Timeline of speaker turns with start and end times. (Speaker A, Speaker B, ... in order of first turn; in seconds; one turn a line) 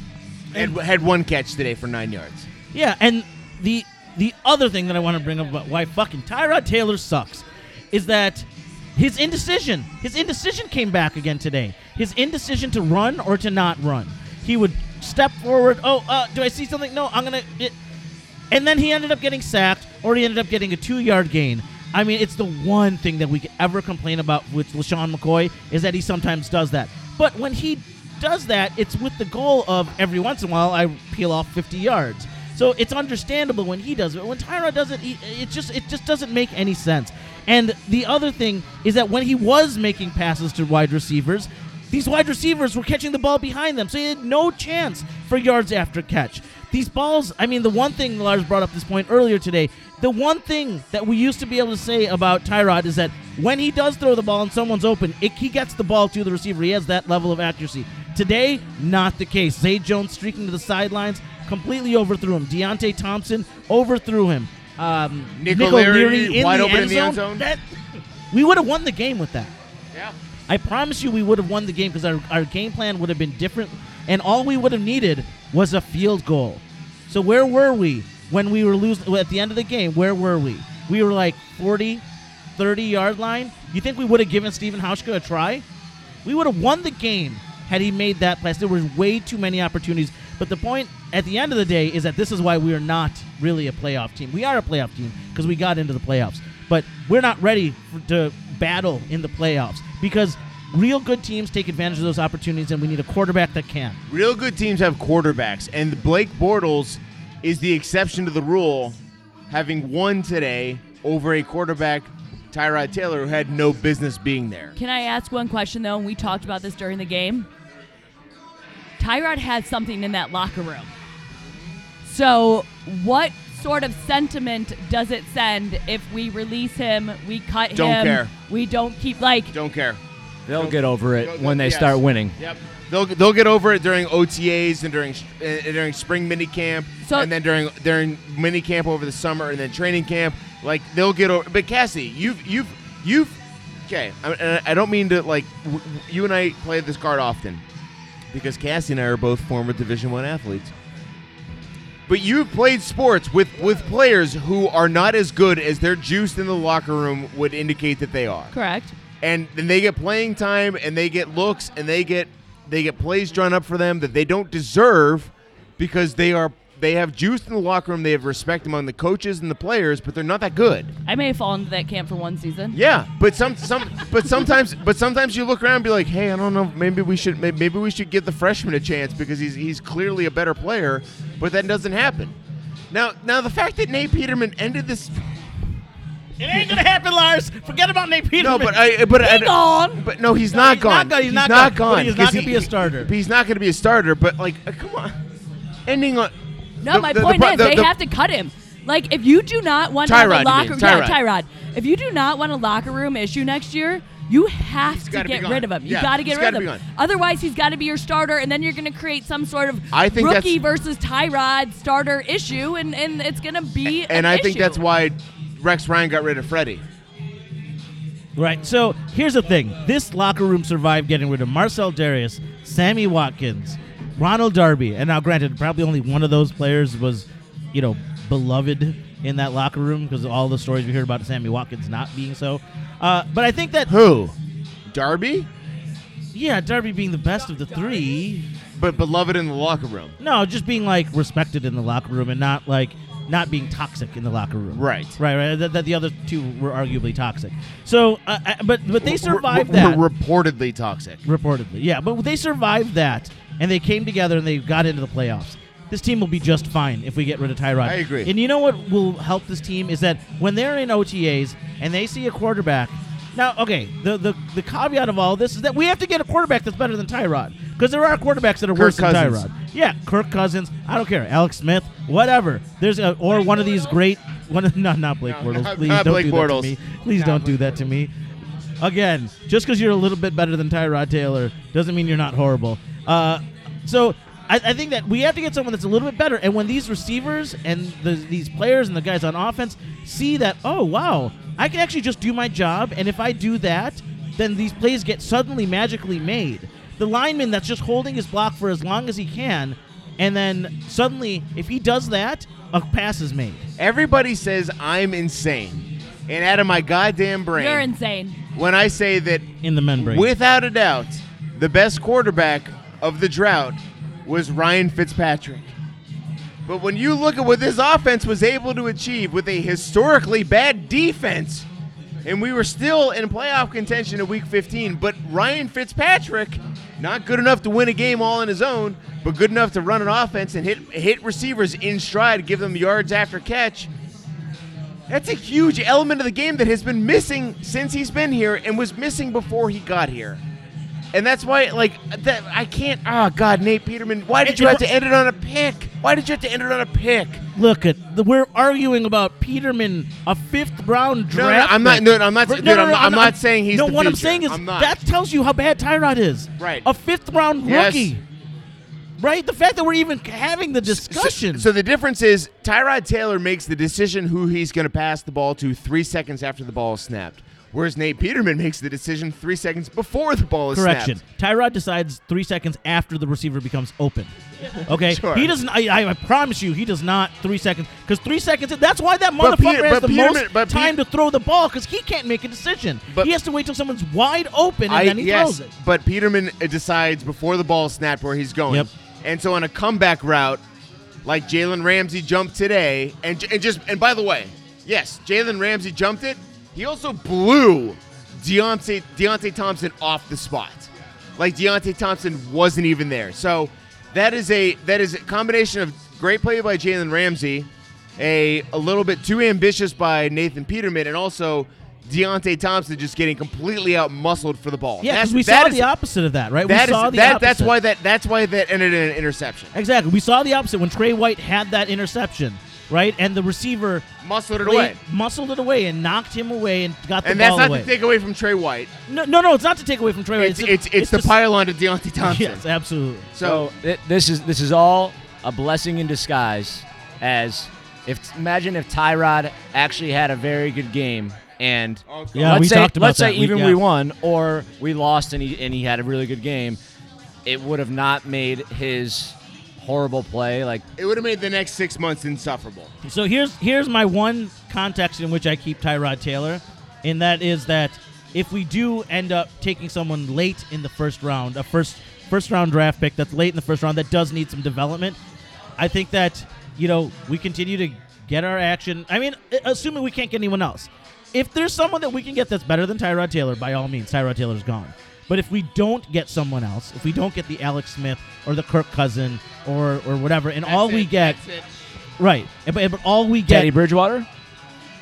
Speaker A: 0.5-2.5
Speaker B: 2.7-17.8
Speaker B: 18.5-67.6
Speaker A: 65.4-67.4
Speaker B: 68.3-69.5
Speaker B: 70.5-82.0
Speaker B: 82.6-85.6
Speaker B: 86.2-104.0
Speaker A: 104.1-114.7
Speaker C: 114.8-117.5
Speaker C: 119.0-120.9
Speaker C: 122.0-129.5
Speaker A: 127.7-128.3
Speaker A: 129.5-130.0
Speaker D: 130.5-132.3
Speaker A: 130.5-147.6
Speaker C: 137.0-137.3
Speaker A: 148.3-150.7
Speaker A: 152.1-158.5
Speaker C: 158.5-158.9
Speaker A: 159.2-170.9
Speaker C: 171.1-172.8
Speaker A: 172.7-182.4
Speaker A: 182.9-185.4
Speaker B: 186.4-188.8
Speaker A: 188.4-195.2
Speaker C: 189.2-190.0
Speaker B: 190.5-193.1
Speaker A: 195.9-196.3
Speaker C: 196.8-214.8
Speaker A: 196.9-197.9
Speaker A: 200.1-201.2
Speaker A: 204.9-206.8
Speaker A: 209.9-210.6
Speaker A: 213.9-216.8
Speaker B: 218.4-233.9
Speaker A: 233.9-234.3
Speaker A: 234.9-235.5
Speaker B: 236.3-238.5
Speaker A: 238.8-240.2
Speaker B: 240.2-250.0
Speaker A: 244.7-245.2
Speaker A: 249.0-251.2
Speaker B: 251.2-278.1
Speaker A: 257.8-258.3
Speaker A: 268.7-269.5
Speaker A: 275.2-277.9
Speaker B: 278.8-303.6
Speaker A: 303.8-307.9
Speaker C: 307.5-308.4
Speaker A: 308.6-315.7
Speaker B: 309.6-310.3
Speaker A: 316.7-321.7
Speaker A: 322.2-333.9
Speaker A: 335.1-340.4
Speaker A: 341.1-347.4
Speaker B: 344.4-344.8
Speaker B: 347.6-358.2
Speaker A: 351.3-355.0
Speaker A: 356.6-356.9
Speaker A: 357.6-358.1
Speaker B: 359.2-361.7
Speaker A: 360.9-371.2
Speaker B: 370.7-385.7
Speaker A: 374.9-375.5
Speaker A: 379.4-380.9
Speaker A: 384.9-390.6
Speaker A: 391.2-415.9
Speaker B: 415.0-417.7
Speaker A: 416.6-419.7
Speaker B: 419.7-424.1
Speaker A: 424.2-425.0
Speaker B: 424.6-427.9
Speaker A: 427.2-428.9
Speaker B: 429.1-431.3
Speaker A: 430.4-432.6
Speaker B: 432.2-433.3
Speaker A: 433.4-433.7
Speaker D: 433.4-446.8
Speaker A: 442.1-442.7
Speaker B: 442.3-443.8
Speaker D: 447.5-450.9
Speaker A: 451.0-452.9
Speaker B: 453.1-465.2
Speaker B: 465.8-481.4
Speaker A: 480.6-481.7
Speaker B: 482.2-483.7
Speaker D: 483.5-484.3